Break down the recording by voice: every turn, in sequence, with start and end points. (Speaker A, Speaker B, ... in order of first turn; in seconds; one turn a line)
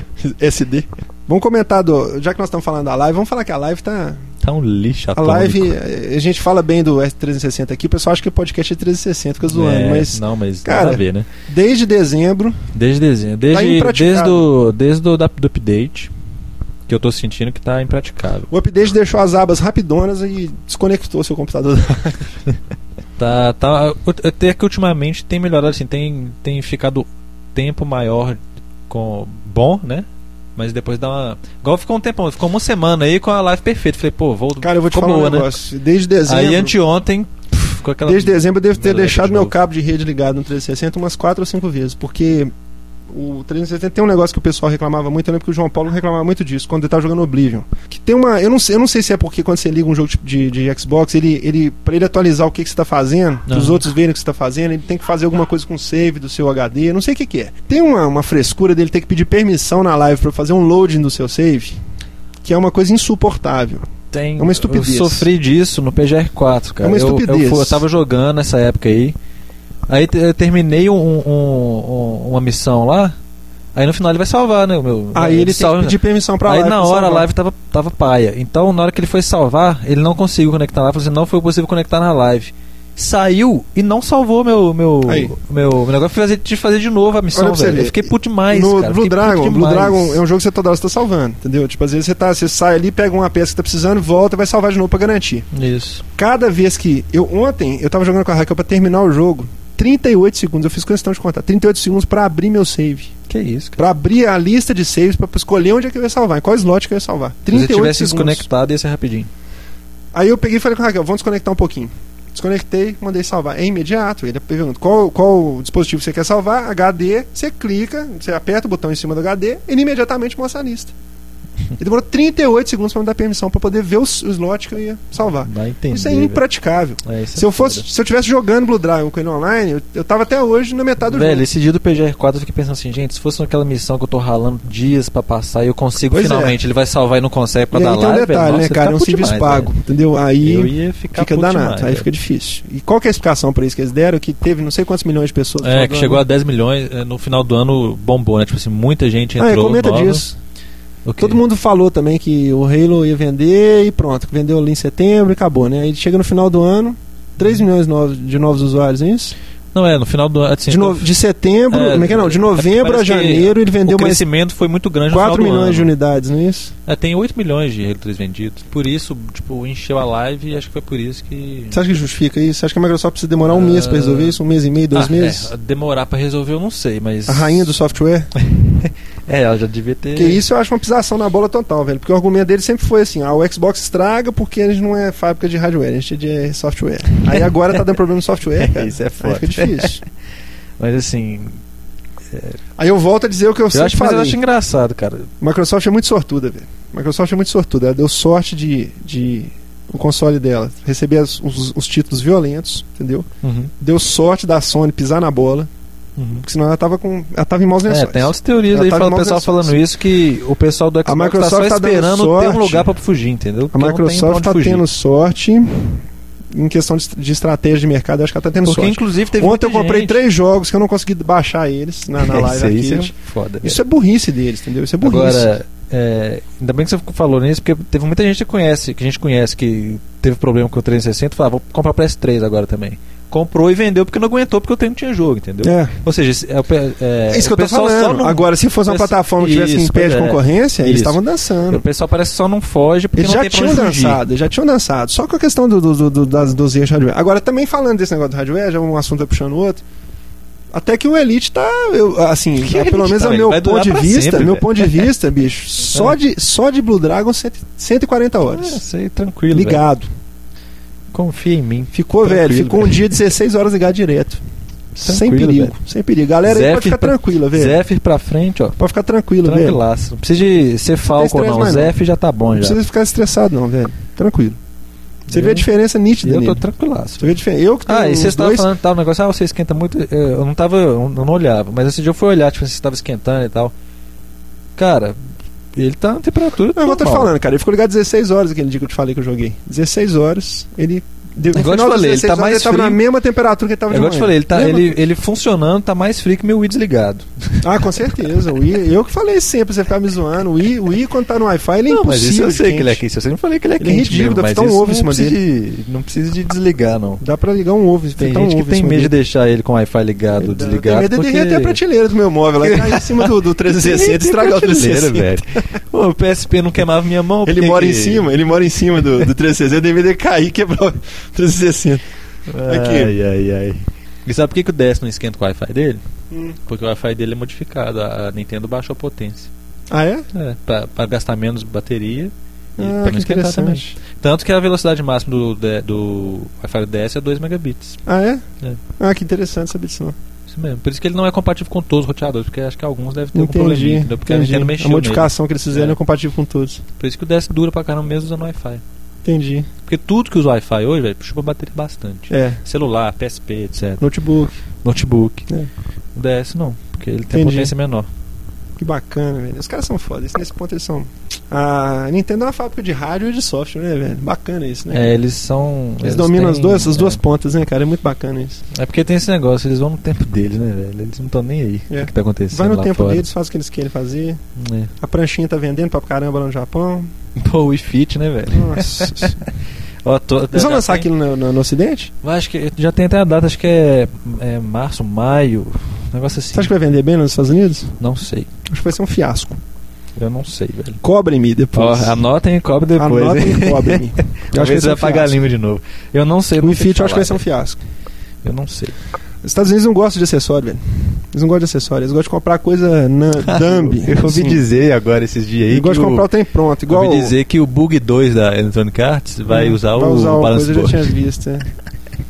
Speaker A: 0.2-4.2
Speaker B: 4.4-5.7
Speaker A: 5.2-12.6
Speaker B: 9.4-11.3
Speaker B: 12.7-16.1
Speaker A: 13.5-14.5
Speaker B: 16.9-18.5
Speaker A: 18.5-22.3
Speaker B: 23.2-35.5
Speaker A: 34.6-36.7
Speaker B: 36.2-39.5
Speaker A: 38.0-42.5
Speaker A: 43.1-61.8
Speaker B: 53.5-53.8
Speaker A: 62.4-63.8
Speaker B: 64.1-69.1
Speaker A: 64.4-65.3
Speaker A: 66.8-67.8
Speaker B: 69.9-73.2
Speaker B: 73.7-90.2
Speaker A: 75.1-77.3
Speaker A: 85.0-85.3
Speaker A: 87.3-95.5
Speaker B: 95.5-96.0
Speaker A: 96.1-103.1
Speaker B: 103.3-103.8
Speaker A: 103.8-108.4
Speaker B: 107.5-109.3
Speaker A: 110.1-120.9
Speaker A: 121.8-131.4
Speaker B: 125.4-126.4
Speaker B: 127.0-127.8
Speaker B: 131.1-139.7
Speaker A: 136.1-136.6
Speaker A: 137.7-146.2
Speaker B: 140.4-142.1
Speaker B: 145.6-150.2
Speaker A: 149.4-150.3
Speaker B: 151.0-151.4
Speaker A: 151.2-159.3
Speaker B: 159.7-161.1
Speaker A: 160.7-164.2
Speaker B: 161.7-165.9
Speaker A: 165.1-166.7
Speaker B: 166.9-171.8
Speaker A: 171.7-175.5
Speaker B: 173.5-174.4
Speaker B: 174.9-177.7
Speaker A: 177.3-178.3
Speaker B: 178.4-180.4
Speaker A: 180.1-190.0
Speaker B: 188.6-190.0
Speaker B: 190.8-191.6
Speaker A: 192.8-194.4
Speaker B: 193.7-195.3
Speaker A: 195.4-203.2
Speaker B: 203.4-203.7
Speaker A: 203.8-205.7
Speaker B: 206.2-206.4
Speaker A: 206.4-209.8
Speaker B: 207.9-214.8
Speaker A: 211.0-212.9
Speaker A: 213.7-225.5
Speaker B: 218.6-220.2
Speaker B: 222.2-223.8
Speaker B: 225.0-244.2
Speaker A: 235.6-235.9
Speaker A: 237.3-241.8
Speaker A: 243.2-249.8
Speaker A: 250.7-258.8
Speaker B: 252.6-255.1
Speaker B: 258.5-259.8
Speaker A: 259.5-260.1
Speaker B: 261.1-263.1
Speaker A: 261.9-264.4
Speaker B: 264.9-265.7
Speaker A: 265.0-267.8
Speaker B: 266.4-268.8
Speaker A: 268.8-269.8
Speaker B: 269.4-272.8
Speaker A: 271.0-271.9
Speaker A: 272.5-274.6
Speaker A: 275.3-276.6
Speaker B: 275.3-275.7
Speaker B: 276.2-277.3
Speaker A: 277.2-278.7
Speaker B: 277.9-283.7
Speaker B: 284.8-285.1
Speaker B: 285.8-287.3
Speaker A: 286.8-294.9
Speaker B: 291.5-293.0
Speaker B: 293.9-297.9
Speaker A: 297.6-303.0
Speaker B: 301.9-307.2
Speaker A: 303.8-305.4
Speaker A: 307.2-309.1
Speaker B: 308.2-311.8
Speaker A: 310.4-315.6
Speaker B: 312.6-318.3
Speaker A: 317.4-322.0
Speaker B: 322.5-326.0
Speaker A: 322.6-323.1
Speaker B: 326.6-329.5
Speaker A: 329.9-330.3
Speaker B: 330.3-338.0
Speaker A: 332.8-333.9
Speaker A: 338.1-338.4
Speaker A: 338.9-340.1
Speaker B: 340.5-346.0
Speaker A: 343.3-346.8
Speaker B: 347.0-348.8
Speaker A: 349.2-349.7
Speaker B: 349.8-354.1
Speaker A: 352.3-352.6
Speaker A: 354.0-354.5
Speaker B: 354.8-355.5
Speaker B: 356.1-358.1
Speaker A: 357.3-357.7
Speaker A: 358.8-365.1
Speaker B: 364.9-367.2
Speaker A: 366.0-368.6
Speaker B: 368.7-373.2
Speaker A: 371.9-374.4
Speaker B: 374.6-374.9
Speaker A: 375.0-377.1
Speaker B: 377.4-379.5
Speaker A: 378.5-379.4
Speaker B: 380.0-381.1
Speaker A: 380.5-382.1
Speaker B: 382.2-386.7
Speaker A: 386.5-387.9
Speaker B: 388.0-388.5
Speaker A: 388.7-389.6
Speaker B: 390.1-391.0
Speaker A: 391.0-392.2
Speaker B: 391.7-397.4
Speaker A: 393.0-395.4
Speaker A: 396.6-397.8
Speaker B: 398.4-398.9
Speaker A: 399.4-404.6
Speaker B: 403.4-406.3
Speaker A: 405.7-407.3
Speaker B: 406.9-411.1
Speaker A: 409.5-411.7